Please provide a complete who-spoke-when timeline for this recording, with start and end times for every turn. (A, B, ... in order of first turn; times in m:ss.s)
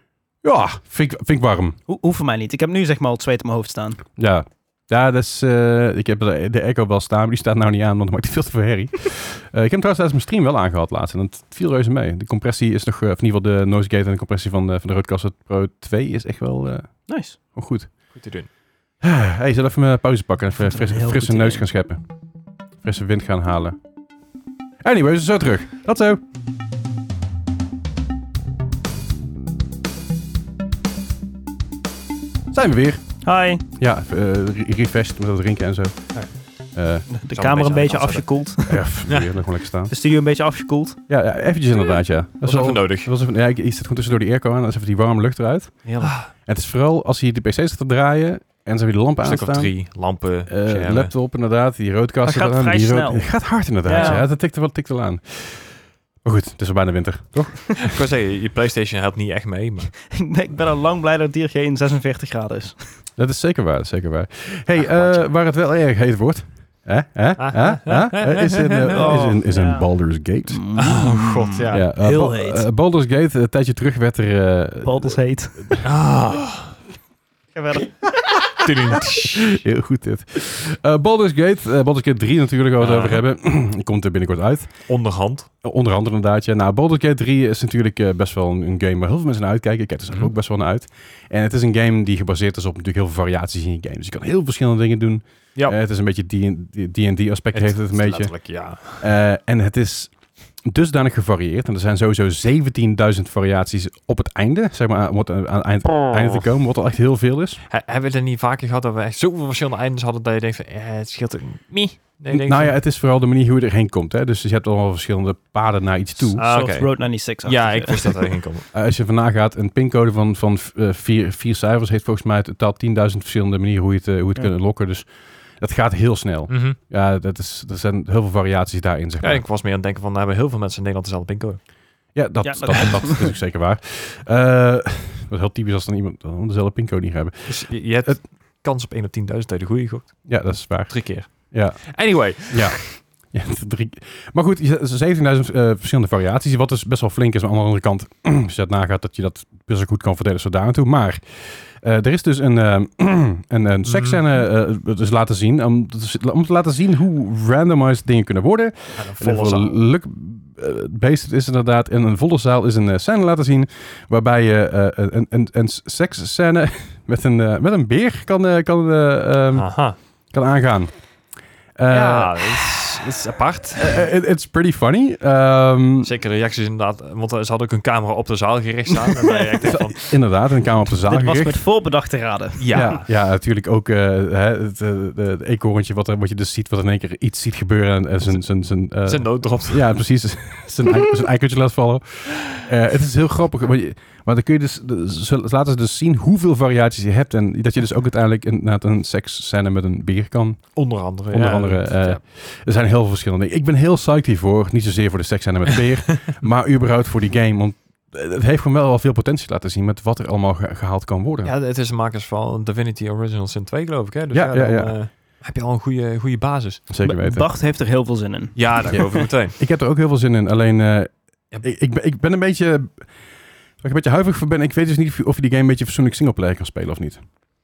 0:00.4-0:01.8 A
0:01.9-0:04.0 B
0:04.2-0:18.2 A
0:17.1-0:17.4 B
0:18.1-0:18.5 C
0:19.0-0:22.0 A
0:20.7-0:21.6 B
0:22.8-0:23.8 A
0:24.8-0:26.2 A
0:32.5-0:37.1 A
0:33.2-0:33.6 B
0:37.1-0:38.8 B
0:37.3-0:38.4 C
0:38.6-0:39.9 A
0:39.9-0:41.0 B
0:41.1-0:58.0 A
0:42.4-0:43.1 C
0:45.8-0:46.1 B
0:46.0-0:46.3 C
0:49.2-0:51.1 C
0:52.2-0:54.2 B
0:53.9-0:54.2 C
0:57.8-0:59.9 C
1:00.1-1:03.0 B
1:03.2-1:10.8 A
1:04.8-1:05.3 C
1:07.4-1:09.4 C
1:08.8-1:12.6 B
1:10.8-1:11.9 C
1:11.7-1:15.8 A
1:14.8-1:15.8 B
1:15.8-1:16.8 C
1:17.5-1:18.6 B
1:18.6-1:19.6 C
1:19.5-1:24.9 A
1:22.8-1:23.2 C
1:24.9-1:25.5 C
1:25.6-1:47.6 A
1:37.5-1:39.0 C
1:46.1-1:46.5 C
1:47.7-1:52.8 C
1:52.3-1:56.4 A
1:56.3-1:58.7 C
1:56.4-1:58.3 B
1:58.7-2:09.4 A
2:06.5-2:06.8 C
2:09.2-2:11.6 C
2:12.1-2:18.2 A
2:12.4-2:13.3 B
2:17.5-2:22.8 C
2:20.2-2:52.8 A
2:33.8-2:34.2 C
2:39.0-2:39.8 C
2:49.5-2:50.0 C
2:51.9-2:54.1 C
2:53.8-2:56.1 A
2:56.0-3:00.1 C
2:59.3-2:59.8 B
2:59.7-3:01.6 A
3:00.9-3:02.9 B
3:02.6-3:03.1 C
3:02.7-3:31.5 A
3:09.0-3:09.9 C
3:20.7-3:22.2 C
3:31.4-3:36.8 C
3:34.3-3:35.0 A
3:36.9-3:37.5 A
3:37.0-3:39.3 B
3:38.6-3:39.6 C
3:38.9-3:43.2 A
3:43.8-3:47.2 A